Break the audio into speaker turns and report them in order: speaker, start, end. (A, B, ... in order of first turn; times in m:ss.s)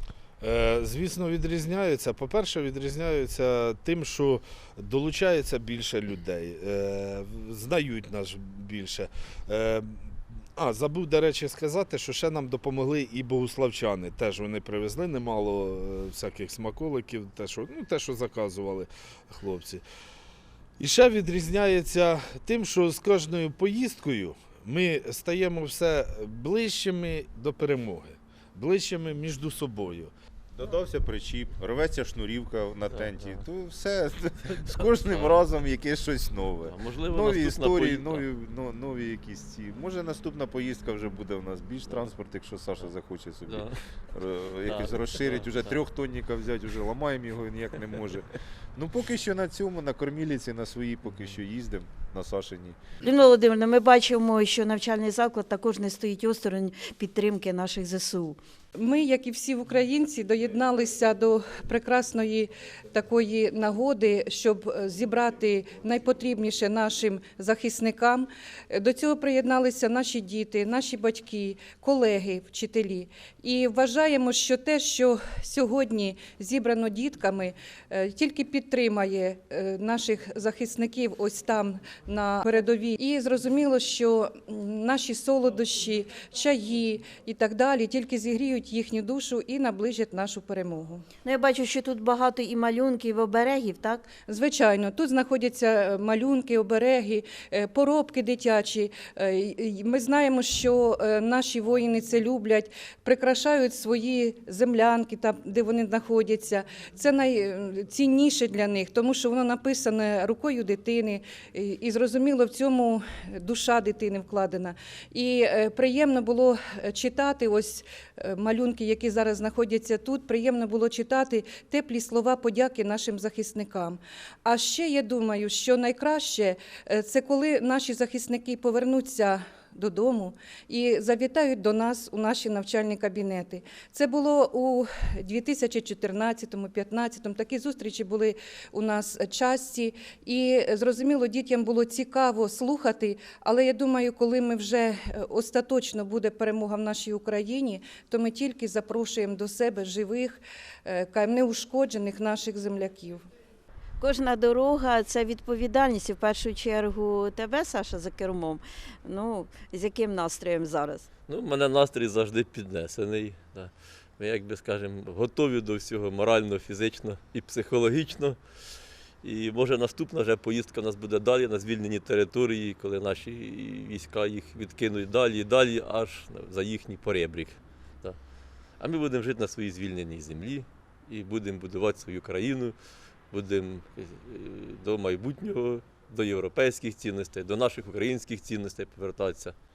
0:00.4-0:19.8 A
0:20.8-0:30.1 A
0:30.6-0:52.8 B
0:32.9-0:33.5 C
0:34.4-0:35.5 C
0:36.6-0:38.3 C
0:43.5-0:43.8 C
0:44.6-0:45.8 C
0:53.0-0:58.4 D
0:58.8-1:31.0 E
1:31.2-1:34.0 D
1:34.3-2:33.2 E
2:34.0-2:41.1 D
2:41.3-2:48.4 C
2:49.2-2:58.2 C
2:58.8-3:02.8 C
3:03.3-3:09.6 C